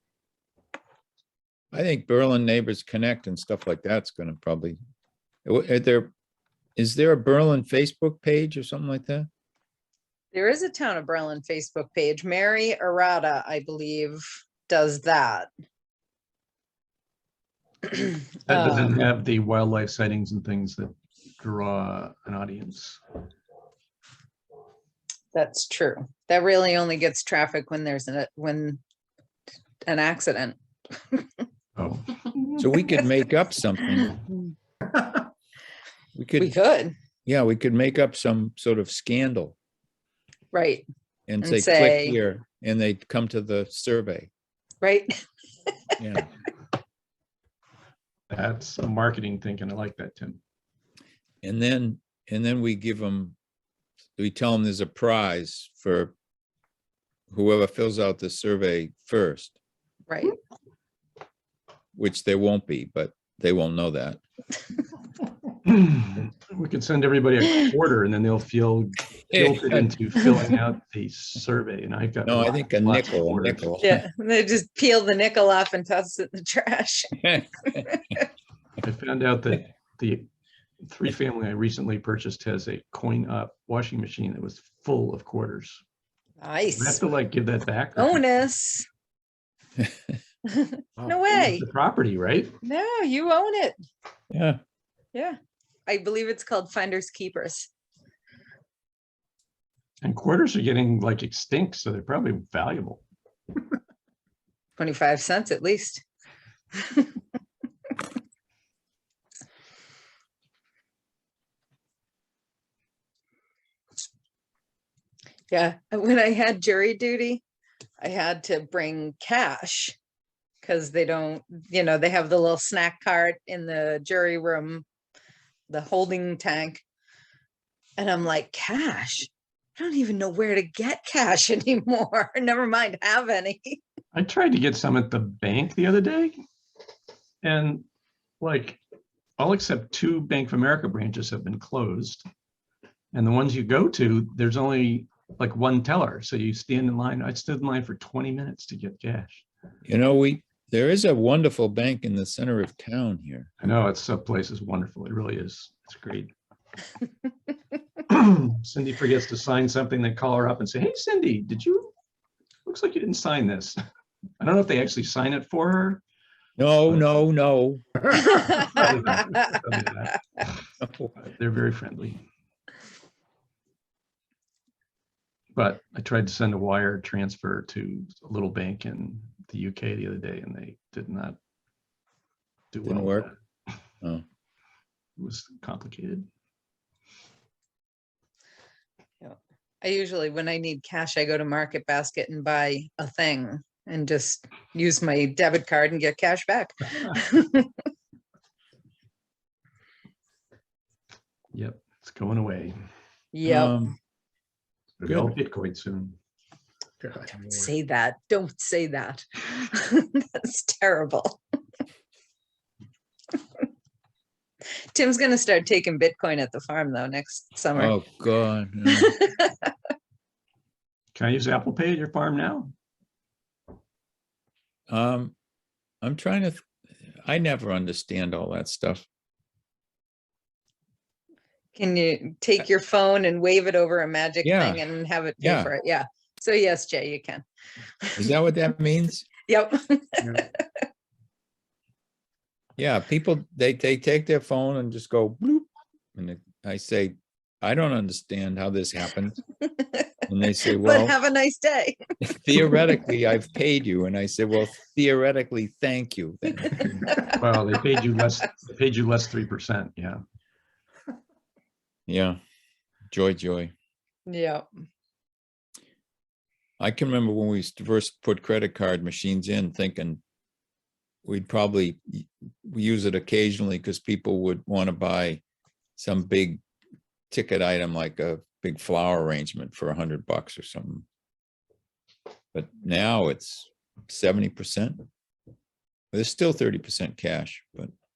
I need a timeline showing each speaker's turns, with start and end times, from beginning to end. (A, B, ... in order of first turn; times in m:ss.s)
0:01.7-0:04.8 A
0:05.4-0:06.1 A
0:06.8-0:09.3 A
0:10.3-0:15.5 B
0:18.4-0:23.0 C
0:18.5-0:18.9 B
0:25.3-0:28.8 B
0:29.9-0:30.6 B
0:31.8-0:32.6 C
0:32.6-0:34.2 A
0:34.0-0:34.2 B
0:36.1-0:36.5 A
0:36.4-0:36.9 B
0:37.2-0:39.6 A
0:40.5-0:40.8 B
0:41.3-0:44.3 A
0:41.4-0:42.2 B
0:44.8-0:45.1 B
0:46.0-0:46.3 A
0:48.3-0:50.4 C
0:51.4-0:53.4 A
0:54.2-0:56.1 A
0:57.3-0:59.6 A
1:00.1-1:00.3 B
1:01.9-1:04.2 A
1:05.6-1:13.7 C
1:09.3-1:10.0 A
1:12.2-1:14.0 A
1:13.8-1:18.2 B
1:17.3-1:17.8 A
1:18.8-1:20.3 C
1:20.8-1:25.8 C
1:26.4-1:27.0 B
1:26.8-1:28.2 C
1:28.0-1:28.8 B
1:30.4-1:31.6 B
1:31.0-1:32.5 C
1:32.6-1:33.8 B
1:34.3-1:34.6 A
1:35.1-1:37.7 B
1:40.0-1:43.0 C
1:44.8-1:46.0 B
1:46.8-1:47.1 B
1:55.5-1:57.4 B
1:58.0-2:00.0 B
2:00.6-2:04.8 B
2:05.7-2:06.8 B
2:08.0-2:13.8 B
2:14.1-2:16.4 C
2:17.4-2:17.8 C
2:18.4-2:18.8 C
2:19.4-2:22.2 C
2:23.1-2:29.4 C
2:29.8-2:33.5 A
2:33.6-2:36.3 C
2:38.1-2:41.9 C
2:42.6-2:43.8 C
2:44.4-2:46.0 C
2:46.6-2:47.9 A
2:48.1-2:48.9 B
2:48.2-2:50.6 C
2:50.8-2:51.1 A
2:51.2-2:52.2 C
2:55.5-3:01.4 C
3:02.7-3:03.3 C
3:02.8-3:03.3 A
3:05.2-3:06.3 C
3:09.2-3:17.7 B
3:21.5-3:22.8 C
3:23.3-3:23.8 B
3:23.4-3:23.9 A
3:25.0-3:26.1 C
3:25.0-3:25.3 A
3:27.0-3:27.7 C
3:27.3-3:31.4 B
3:34.9-3:38.0 B
3:37.7-3:39.2 A
3:38.9-3:39.7 B
3:41.2-3:42.7 C
3:44.9-3:45.3 A
3:46.0-3:46.7 A
3:47.2-3:49.0 A
3:51.7-3:57.4 B
3:54.4-3:54.8 A
3:55.4-3:55.7 A
3:58.2-3:59.3 A
3:59.5-4:00.6 B
4:02.8-4:09.4 A
4:09.8-4:10.1 B
4:10.3-4:11.2 A
4:10.7-4:12.0 B
4:12.2-4:17.2 A
4:17.1-4:17.3 B
4:17.3-4:20.2 C
4:22.1-4:22.4 A
4:23.1-4:23.7 A
4:24.3-4:24.6 B
4:26.8-4:30.2 A
4:31.2-4:35.4 A
4:36.0-4:36.6 A
4:37.3-4:41.0 A
4:42.5-4:45.0 A
4:46.1-4:47.9 A